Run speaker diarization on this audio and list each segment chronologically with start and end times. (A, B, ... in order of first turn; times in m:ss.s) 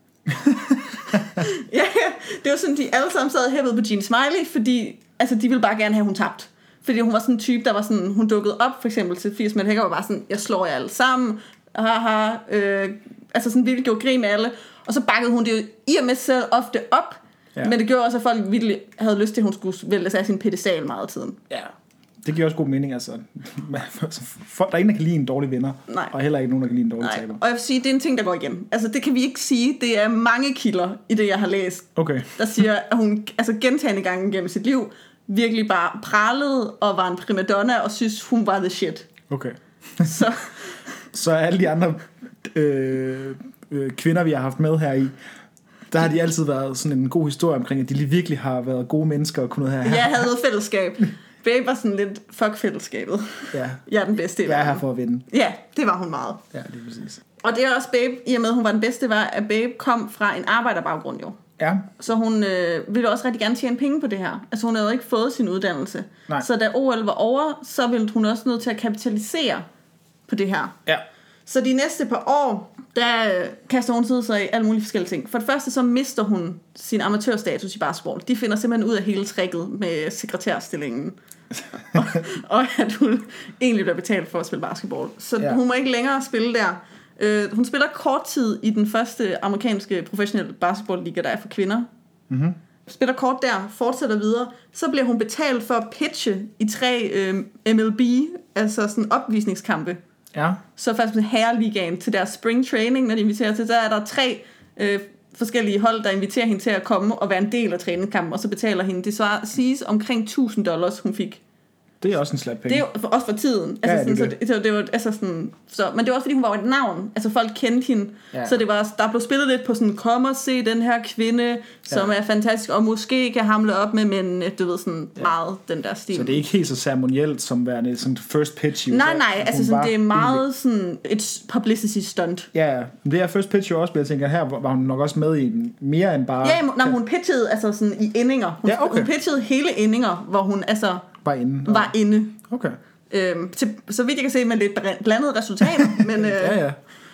0:00.9-0:21.5 A
0:21.5-0:27.4 B
0:25.9-0:26.1 A
0:27.0-0:39.1 A
0:32.0-0:32.6 B
0:39.3-0:40.3 B
0:40.0-0:40.8 A
0:41.1-0:45.2 B
0:45.9-0:50.3 B
0:49.8-0:56.4 A
0:53.5-0:53.8 B
0:54.4-0:55.3 B
0:56.5-0:57.2 B
0:57.4-1:01.4 A
1:01.6-1:01.9 B
1:02.0-1:09.7 A
1:10.3-1:10.8 A
1:11.5-1:21.2 A
1:21.7-1:31.9 A
1:32.3-1:32.6 B
1:32.9-1:40.0 A
1:40.3-1:40.6 B
1:40.8-1:51.4 A
1:52.0-1:52.8 B
1:52.7-2:06.4 A
1:53.8-1:54.4 B
1:58.3-1:58.6 B
2:06.1-2:10.4 B
2:08.9-2:12.5 A
2:12.5-2:17.0 B
2:16.4-2:21.1 A
2:18.6-2:19.1 B
2:21.2-2:22.8 B
2:21.6-2:22.4 A
2:23.1-2:26.6 A
2:25.8-2:26.8 B